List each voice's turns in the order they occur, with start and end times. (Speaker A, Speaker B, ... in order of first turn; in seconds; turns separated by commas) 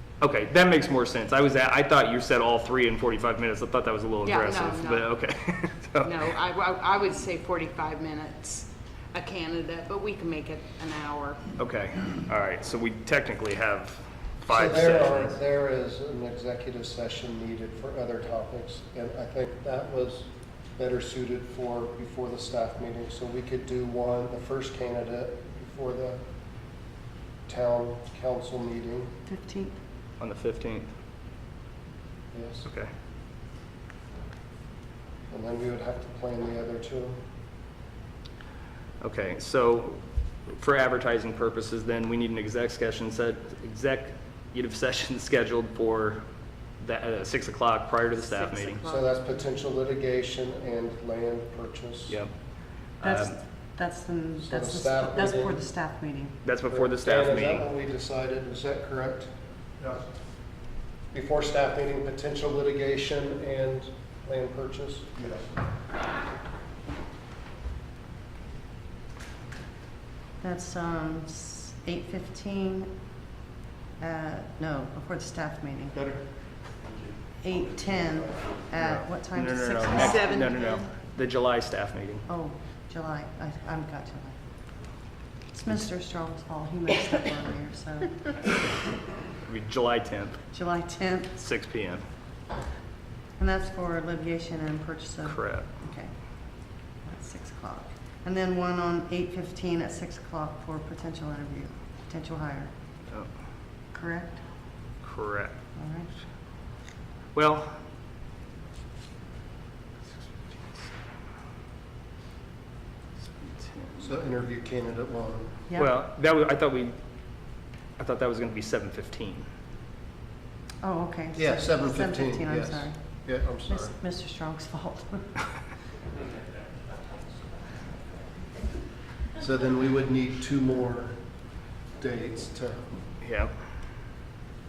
Speaker A: 0.2-6.2, Speaker B: 4.2-5.2, Speaker B: 6.0-11.4, Speaker A: 11.6-15.3, Speaker C: 14.5-26.2, Speaker C: 27.5-29.1, Speaker D: 29.3-29.8, Speaker A: 30.2-30.9, Speaker C: 32.3-32.7, Speaker C: 35.3-37.2, Speaker A: 39.0-46.2, Speaker A: 46.8-48.9, Speaker B: 48.3-49.0, Speaker C: 48.8-52.2, Speaker A: 53.0-53.4, Speaker D: 53.0-56.4, Speaker C: 54.4-55.6, Speaker A: 56.5-57.7, Speaker C: 56.7-59.3, Speaker C: 61.1-65.2, Speaker D: 70.4-72.9, Speaker D: 74.0-76.0, Speaker D: 77.4-80.4, Speaker A: 78.8-82.2, Speaker B: 79.9-80.9, Speaker D: 82.3-84.4, Speaker D: 85.5-88.3, Speaker A: 89.4-90.4, Speaker D: 90.5-91.4, Speaker A: 91.4-92.0, Speaker D: 93.4-96.1, Speaker A: 95.3-95.7, Speaker D: 97.0-102.7, Speaker D: 103.9-104.4, Speaker A: 105.0-105.6, Speaker D: 105.8-106.1, Speaker A: 107.3-107.8, Speaker A: 110.2-110.9, Speaker A: 113.2-114.0, Speaker C: 114.0-115.6, Speaker A: 115.8-117.0, Speaker A: 118.0-119.5, Speaker D: 120.8-123.0, Speaker C: 121.3-124.0, Speaker D: 123.7-125.4, Speaker C: 129.4-131.2, Speaker C: 132.0-132.9, Speaker A: 133.2-133.5